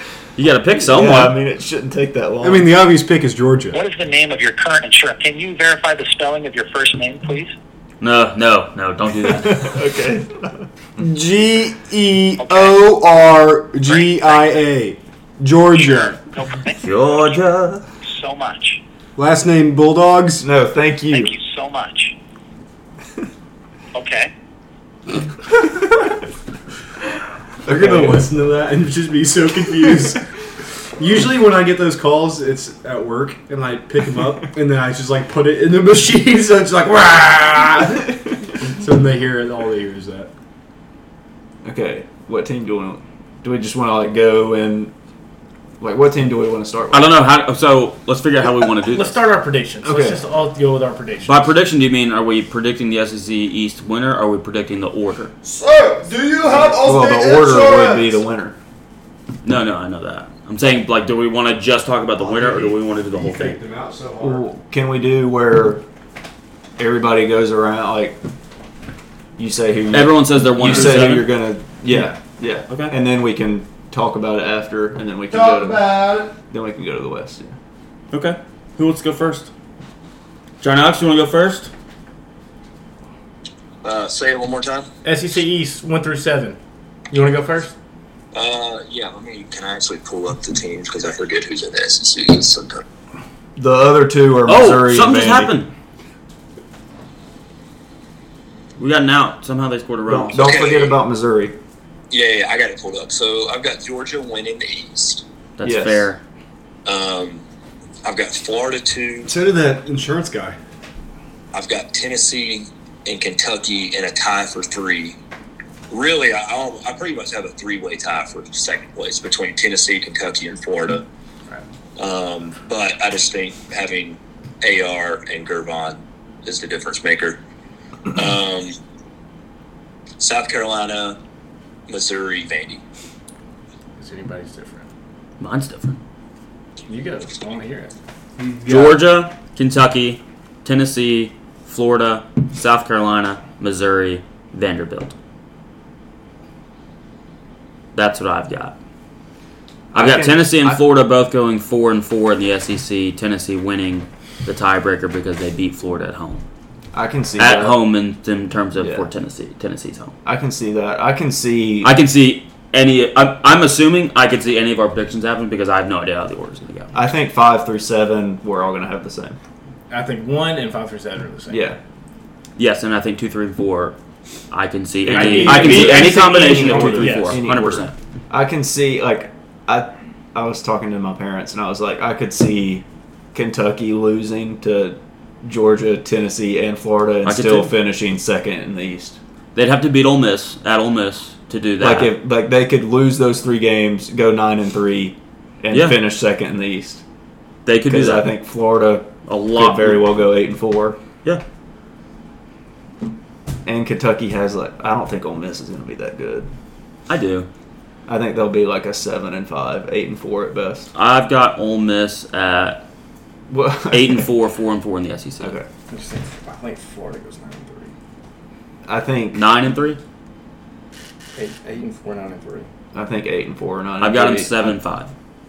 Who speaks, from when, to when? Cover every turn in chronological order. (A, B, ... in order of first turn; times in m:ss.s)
0:00.4-0:01.3 A
0:00.8-0:02.7 B
0:02.4-0:03.8 C
0:03.7-0:07.5 D
0:08.0-0:09.8 A
0:09.5-0:10.7 B
0:11.0-0:16.2 C
0:12.4-0:12.8 D
0:13.8-0:14.6 D
0:15.7-0:17.4 D
0:16.8-0:17.8 A
0:18.0-0:18.8 D
0:19.2-0:20.4 C
0:20.4-0:21.3 B
0:21.1-0:22.1 D
0:23.9-0:24.3 D
0:27.6-0:28.3 B
0:27.6-0:30.2 C
0:31.0-0:40.3 C
0:41.6-0:44.9 B
0:45.8-0:47.1 B
0:46.9-0:49.2 A
0:48.8-0:51.5 E
0:49.8-0:50.2 B
0:51.2-0:55.3 A
0:55.4-0:58.2 C
0:56.5-0:58.6 B
0:59.4-1:03.6 A
1:02.2-1:04.5 C
1:04.2-1:05.8 B
1:06.8-1:08.2 B
1:09.4-1:17.6 B
1:09.9-1:11.3 A
1:12.7-1:13.0 A
1:15.3-1:16.3 C
1:18.1-1:19.5 A
1:20.6-1:21.7 A
1:23.8-1:24.9 F
1:25.0-1:26.6 E
1:27.1-1:27.7 E
1:28.3-1:32.8 F
1:33.6-1:35.5 B
1:34.4-1:35.7 A
1:38.8-1:40.7 A
1:40.1-1:41.6 B
1:40.4-1:40.9 F
1:42.1-1:45.2 F
1:45.6-1:46.2 A
1:45.6-1:46.1 B
1:46.8-1:47.4 F
1:48.0-1:49.3 F
1:49.2-1:50.6 C
1:51.5-1:55.2 F
1:55.9-2:01.0 F
2:02.0-2:07.4 F
2:08.1-2:08.8 F
2:10.2-2:11.2 F
2:11.9-2:12.8 F
2:14.0-2:14.9 E
2:15.4-2:16.0 A
2:16.9-2:17.9 E
2:18.4-2:19.0 C
2:18.6-2:25.1 A
2:27.9-2:28.8 A
2:29.9-2:30.8 B
2:29.9-2:36.4 A
2:36.9-2:37.8 B
2:37.4-2:40.1 A
2:38.8-2:39.1 B
2:40.2-2:41.9 B
2:41.8-2:46.9 A
2:46.9-2:49.4 B
2:49.9-2:51.6 E
2:51.5-2:51.8 B
2:52.6-2:54.0 A
2:54.5-2:57.9 A
2:55.0-2:57.4 E
2:55.1-3:09.2 B
3:07.2-3:07.7 A
3:09.5-3:12.1 A
3:11.8-3:17.0 B
3:15.7-3:16.0 A
3:17.6-3:18.3 A
3:17.9-3:21.0 B
3:19.3-3:20.0 A
3:23.6-3:26.5 B
3:27.1-3:27.5 A
3:28.0-3:30.9 B
3:30.9-3:32.8 A
3:33.5-3:34.3 B
3:33.9-3:35.6 A
3:35.4-3:35.7 B
3:35.9-3:37.9 E
3:38.8-3:39.4 B
3:39.3-3:40.0 A
3:41.3-3:42.7 E
3:42.9-3:44.8 B
3:44.0-3:45.1 A